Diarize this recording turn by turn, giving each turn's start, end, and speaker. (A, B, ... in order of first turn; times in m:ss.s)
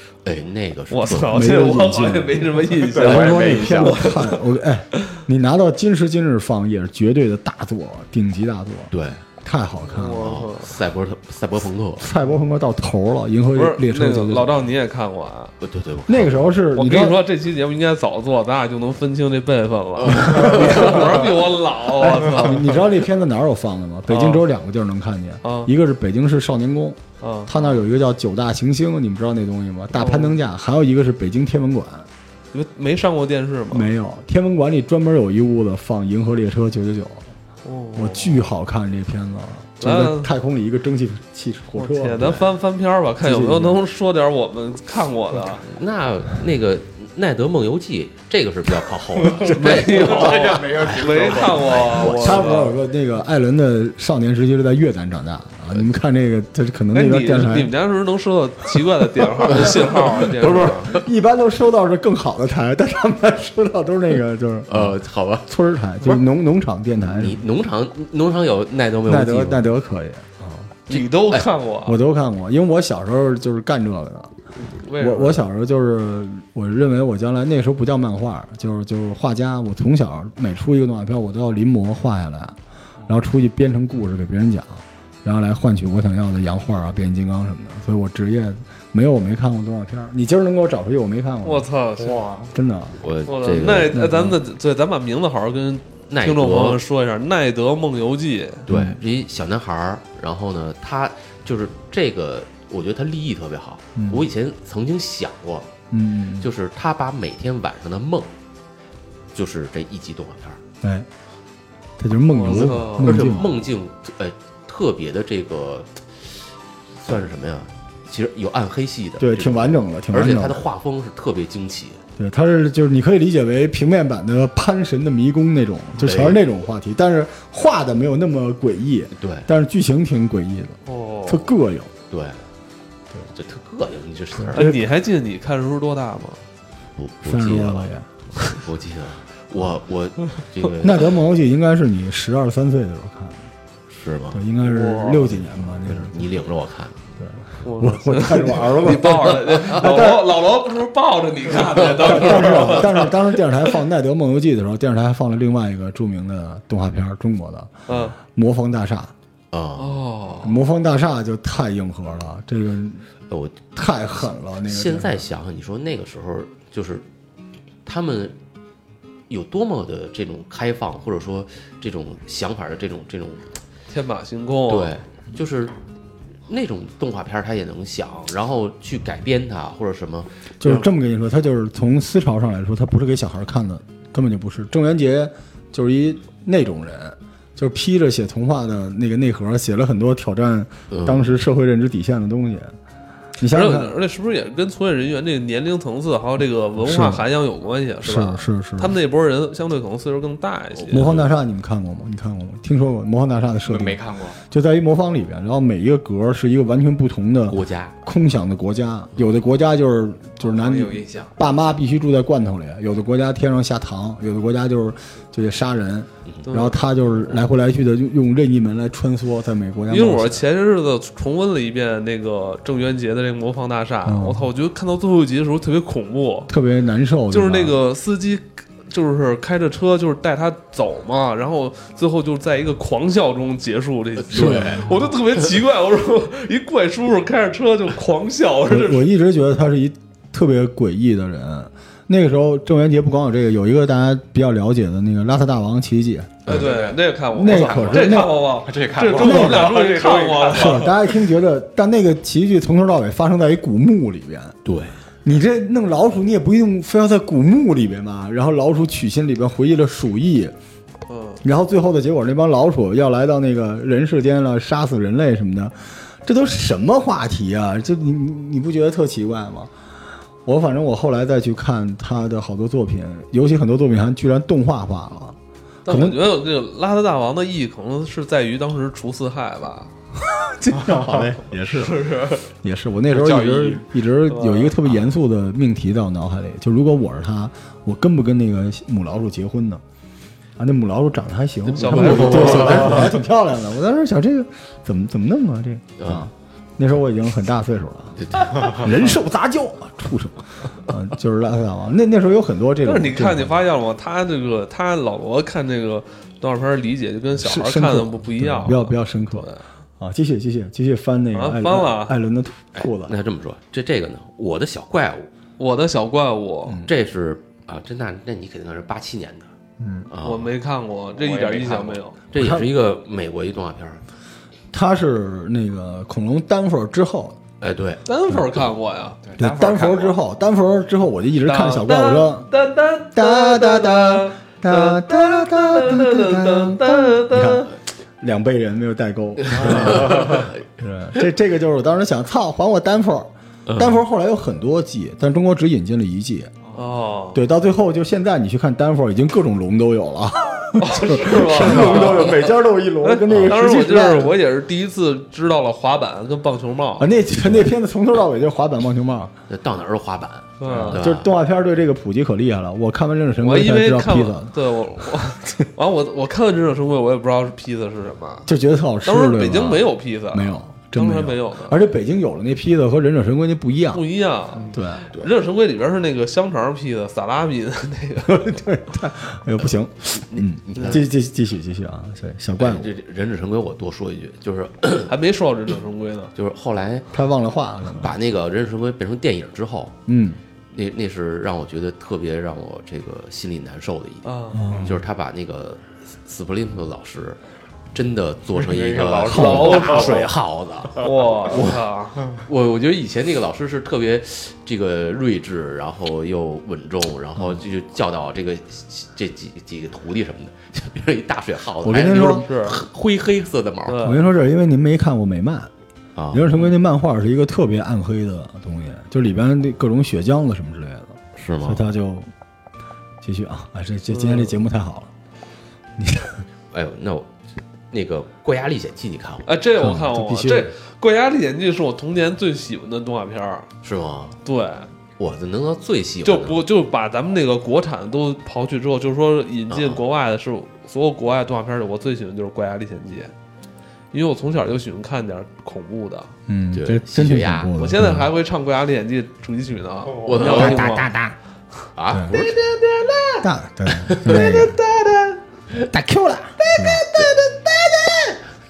0:00.2-0:01.4 A
0:00.9-0:04.4 B
0:01.2-0:10.3 C
0:02.8-0:04.0 D
0:08.9-0:09.2 A
0:09.9-0:10.7 B
0:10.1-0:12.1 A
0:12.0-0:14.6 C
0:13.6-0:15.5 B
0:15.6-0:16.5 A
0:16.1-0:17.2 C
0:16.7-0:22.8 B
0:20.0-0:21.3 A
0:20.6-0:21.0 C
0:21.9-0:32.1 C
0:24.1-0:24.4 B
0:25.4-0:25.7 B
0:27.2-0:27.5 B
0:29.9-0:30.4 B
0:32.5-0:33.9 B
0:33.7-0:37.2 C
0:37.6-0:38.5 B
0:37.9-0:42.4 C
0:39.8-0:40.3 B
0:41.7-0:45.6 B
0:43.2-0:43.8 C
0:45.6-0:52.6 A
0:49.2-0:49.9 C
0:49.4-0:52.1 D
0:49.5-0:52.7 B
0:52.1-0:57.7 C
0:56.9-1:00.9 B
0:59.4-1:07.4 C
1:00.4-1:01.0 A
1:04.7-1:05.5 A
1:07.0-1:09.7 A
1:09.0-1:10.9 C
1:10.9-1:12.0 B
1:10.9-1:11.5 A
1:11.8-1:14.3 C
1:14.7-1:15.4 B
1:15.0-1:31.7 C
1:31.4-1:32.2 B
1:32.0-1:32.5 D
1:32.5-1:33.0 C
1:33.0-1:34.0 A
1:33.2-1:38.7 B
1:33.7-1:34.4 C
1:36.1-1:36.8 A
1:38.7-1:45.7 A
1:38.7-1:39.0 C
1:44.0-1:44.3 C
1:45.9-1:46.5 C
1:46.4-1:48.3 A
1:49.3-1:50.6 A
1:50.8-1:51.1 C
1:52.0-1:53.5 C
1:52.3-1:53.3 B
1:52.5-2:02.0 A
1:59.2-2:00.6 C
2:02.2-2:11.9 C
2:06.0-2:06.4 A
2:09.1-2:09.5 A
2:10.8-2:11.5 B
2:12.1-2:12.4 A
2:13.3-2:14.7 A
2:14.4-2:14.8 C
2:14.5-2:16.4 B
2:17.0-2:21.1 A
2:17.2-2:18.1 C
2:20.8-2:23.4 C
2:23.9-2:24.4 A
2:24.3-2:26.3 C
2:24.6-2:25.4 B
2:25.8-2:27.0 A
2:27.2-2:30.3 C
2:27.6-2:33.1 B
2:31.8-2:32.7 A
2:32.0-2:39.1 C
2:37.9-2:38.2 B
2:39.5-2:40.0 A
2:39.8-2:40.6 B
2:40.4-2:43.1 C
2:43.3-2:43.7 A
2:43.7-2:45.2 C
2:44.6-2:47.0 A
2:47.8-2:48.4 A
2:49.3-2:53.6 A
2:53.9-2:54.9 B
2:54.7-2:55.7 A
2:56.5-3:00.9 A
3:00.6-3:12.7 C
3:10.9-3:11.4 A
3:13.4-3:14.0 C
3:13.5-3:21.1 B
3:16.8-3:17.2 C
3:18.0-3:19.0 C
3:20.8-3:21.3 A
3:20.9-3:40.4 C
3:23.6-3:24.4 D
3:27.5-3:28.0 A
3:30.4-3:31.3 D
3:36.4-3:36.8 B
3:39.9-3:46.5 B
3:44.0-3:44.5 C
3:46.5-3:47.8 C
3:47.3-3:59.1 B
3:54.2-3:54.9 A
3:54.3-3:54.9 C
3:58.7-4:06.6 C
4:06.5-4:10.9 B
4:06.5-4:11.2 D
4:07.3-4:08.4 C
4:09.1-4:09.8 C
4:10.5-4:14.6 C
4:14.6-4:14.9 A
4:15.2-4:20.5 C
4:21.1-4:21.4 B
4:21.4-4:29.7 C
4:30.4-4:36.2 C
4:35.8-4:39.9 B
4:40.4-4:49.8 C
4:41.7-4:42.5 B
4:43.1-4:43.8 D
4:44.3-4:44.7 B
4:50.6-5:03.6 C
4:51.7-4:53.2 B
4:51.8-4:53.1 A
4:56.0-4:56.3 A
4:58.2-4:59.0 A
5:02.8-5:09.6 B
5:07.4-5:13.2 C
5:11.3-5:12.2 B
5:12.8-5:15.3 A
5:15.6-5:16.8 B
5:16.6-5:16.9 C
5:16.8-5:19.5 A
5:19.8-5:20.1 C
5:20.1-5:20.5 A
5:20.2-5:22.2 B
5:21.2-5:22.0 D
5:22.3-5:24.0 A
5:22.3-5:22.7 C
5:24.7-5:27.4 C
5:27.6-5:28.0 A
5:28.0-5:29.2 B
5:29.2-5:30.1 D
5:29.4-5:32.5 C
5:31.4-5:37.7 B
5:33.1-5:46.5 C
5:39.5-5:40.6 A
5:43.6-5:44.0 A
5:46.7-5:47.4 B
5:47.3-5:54.4 C
5:50.8-5:57.1 B
5:53.3-5:53.5 A
5:57.0-5:59.3 C
5:59.5-6:01.3 A
6:00.6-6:01.0 B
6:00.7-6:04.5 C
6:03.4-6:08.5 B
6:08.4-6:14.0 C
6:09.0-6:11.8 B
6:13.9-6:18.5 B
6:14.7-6:15.1 C
6:18.2-6:22.9 C
6:20.2-6:21.1 A
6:22.6-6:25.1 A
6:25.1-6:26.3 B
6:26.3-6:27.2 A
6:27.1-6:28.1 C
6:27.8-6:30.0 A
6:30.0-6:30.4 C
6:30.7-6:37.4 A
6:34.2-6:34.7 B
6:34.5-6:35.0 C
6:37.9-6:54.1 A
6:38.6-6:40.2 D
6:39.2-6:40.3 B
6:39.2-6:39.9 C
6:41.0-6:42.3 B
6:51.8-6:52.5 C
6:52.1-6:52.8 B
6:53.8-6:54.2 B
6:54.0-6:55.7 C
6:56.2-6:56.5 A
6:56.3-7:02.3 C
7:01.3-7:01.9 A
7:03.2-7:05.1 C
7:04.1-7:04.6 B
7:06.0-7:06.4 C
7:06.7-7:07.3 A
7:07.9-7:09.5 A
7:09.4-7:13.7 B
7:09.8-7:10.7 C
7:13.8-7:14.4 A
7:14.4-7:14.9 B
7:15.2-7:16.6 A
7:16.2-7:23.3 B
7:19.7-7:20.0 A
7:24.1-7:26.3 B
7:26.5-7:28.3 C
7:26.7-7:27.7 A
7:27.8-7:31.1 B
7:30.2-7:31.1 A
7:30.4-7:31.4 C
7:32.0-7:32.7 A
7:32.1-7:32.4 C
7:32.3-7:33.4 B
7:33.4-7:34.8 C
7:33.9-7:34.8 A
7:34.4-7:35.3 B
7:35.8-7:37.0 C
7:36.6-7:38.4 B